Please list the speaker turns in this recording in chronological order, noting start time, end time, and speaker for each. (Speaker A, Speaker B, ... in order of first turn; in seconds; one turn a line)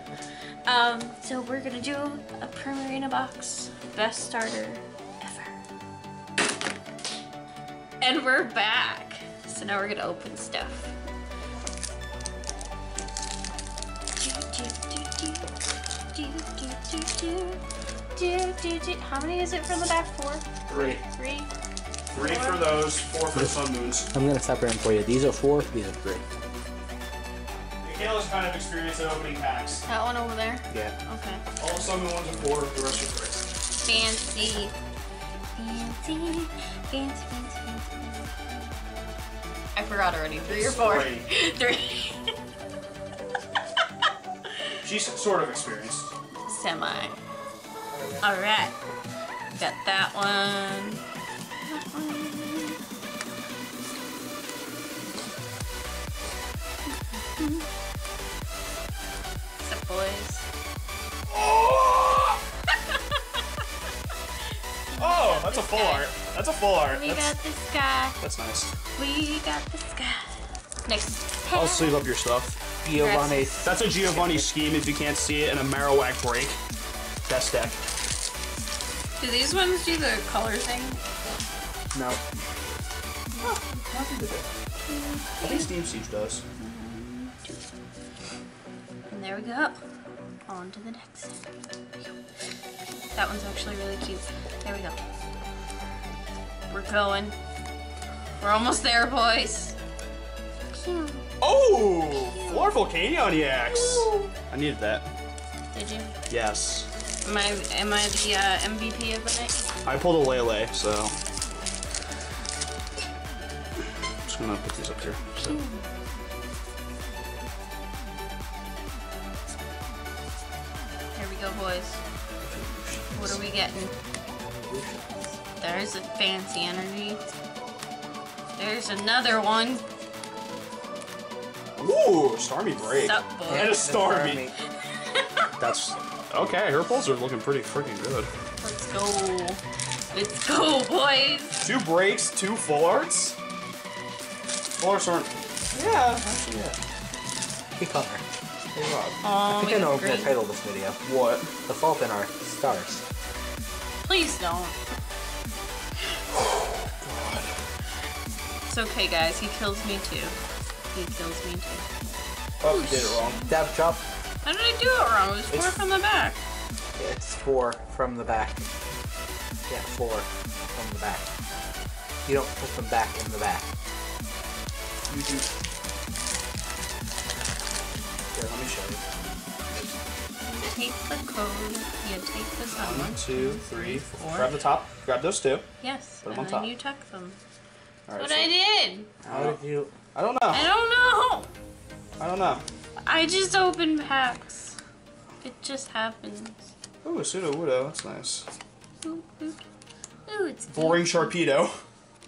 Speaker A: 0.7-5.6
Speaker A: 8.0-10.9
Speaker A: 14.2-15.4
Speaker A: 16.1-17.6
Speaker A: 18.1-21.5
Speaker B: 20.7-21.0
Speaker C: 20.7-21.0
Speaker A: 22.1-22.8
Speaker B: 22.1-24.1
Speaker C: 24.1-26.2
Speaker B: 27.8-29.8
Speaker A: 29.9-31.4
Speaker C: 30.7-30.9
Speaker B: 31.6-33.4
Speaker A: 33.8-34.7
Speaker A: 35.5-38.3
Speaker A: 39.8-42.3
Speaker B: 40.4-41.2
Speaker B: 44.8-46.1
Speaker A: 46.5-47.2
Speaker A: 48.2-48.7
Speaker A: 49.6-51.0
Speaker A: 51.6-52.8
Speaker A: 57.4-57.6
Speaker A: 59.6-60.4
Speaker B: 61.3-62.4
Speaker A: 64.9-66.1
Speaker B: 65.0-67.3
Speaker A: 66.9-68.2
Speaker B: 68.2-68.7
Speaker A: 69.0-72.0
Speaker B: 71.5-72.6
Speaker C: 72.8-74.5
Speaker A: 72.9-73.4
Speaker B: 73.6-76.6
Speaker B: 77.2-77.8
Speaker A: 79.2-81.0
Speaker C: 81.9-82.2
Speaker B: 83.4-84.5
Speaker A: 84.8-85.7
Speaker B: 85.4-86.4
Speaker A: 86.6-87.6
Speaker A: 89.1-89.8
Speaker A: 90.5-91.5
Speaker A: 93.1-95.0
Speaker A: 96.7-97.3
Speaker A: 98.4-99.8
Speaker A: 100.7-101.3
Speaker B: 101.4-105.1
Speaker A: 102.0-102.9
Speaker A: 103.6-104.3
Speaker A: 105.7-106.1
Speaker B: 106.3-106.9
Speaker A: 107.2-109.7
Speaker B: 109.8-111.1
Speaker B: 114.2-115.6
Speaker A: 115.4-115.8
Speaker A: 121.2-122.0
Speaker B: 122.4-123.3
Speaker A: 123.1-123.9
Speaker C: 124.4-125.2
Speaker A: 125.6-127.2
Speaker A: 128.6-129.8
Speaker B: 131.8-134.5
Speaker A: 132.8-133.8
Speaker C: 133.5-134.6
Speaker A: 134.8-135.5
Speaker B: 135.6-138.3
Speaker A: 138.6-141.6
Speaker B: 141.6-143.3
Speaker B: 144.8-146.8
Speaker C: 147.8-148.2
Speaker B: 148.7-149.2
Speaker A: 149.2-150.3
Speaker C: 149.4-151.0
Speaker B: 151.0-151.5
Speaker C: 151.6-153.0
Speaker A: 154.0-154.8
Speaker B: 156.3-157.5
Speaker A: 158.7-160.3
Speaker A: 160.9-161.9
Speaker B: 162.6-163.5
Speaker A: 162.7-163.3
Speaker C: 163.5-164.0
Speaker A: 164.4-166.4
Speaker B: 165.5-165.7
Speaker C: 166.9-168.6
Speaker C: 169.7-171.2
Speaker C: 172.2-173.7
Speaker B: 175.1-175.5
Speaker B: 178.3-179.0
Speaker A: 180.4-184.5
Speaker B: 182.8-185.6
Speaker A: 185.8-187.4
Speaker B: 186.2-186.7
Speaker B: 188.1-188.5
Speaker A: 188.2-189.1
Speaker B: 189.2-189.6
Speaker C: 189.2-189.9
Speaker B: 190.1-190.7
Speaker A: 190.5-191.5
Speaker B: 192.2-192.6
Speaker A: 193.0-194.8
Speaker A: 195.4-196.6
Speaker B: 197.0-198.5
Speaker A: 199.0-199.6
Speaker A: 200.2-201.3
Speaker B: 200.7-201.8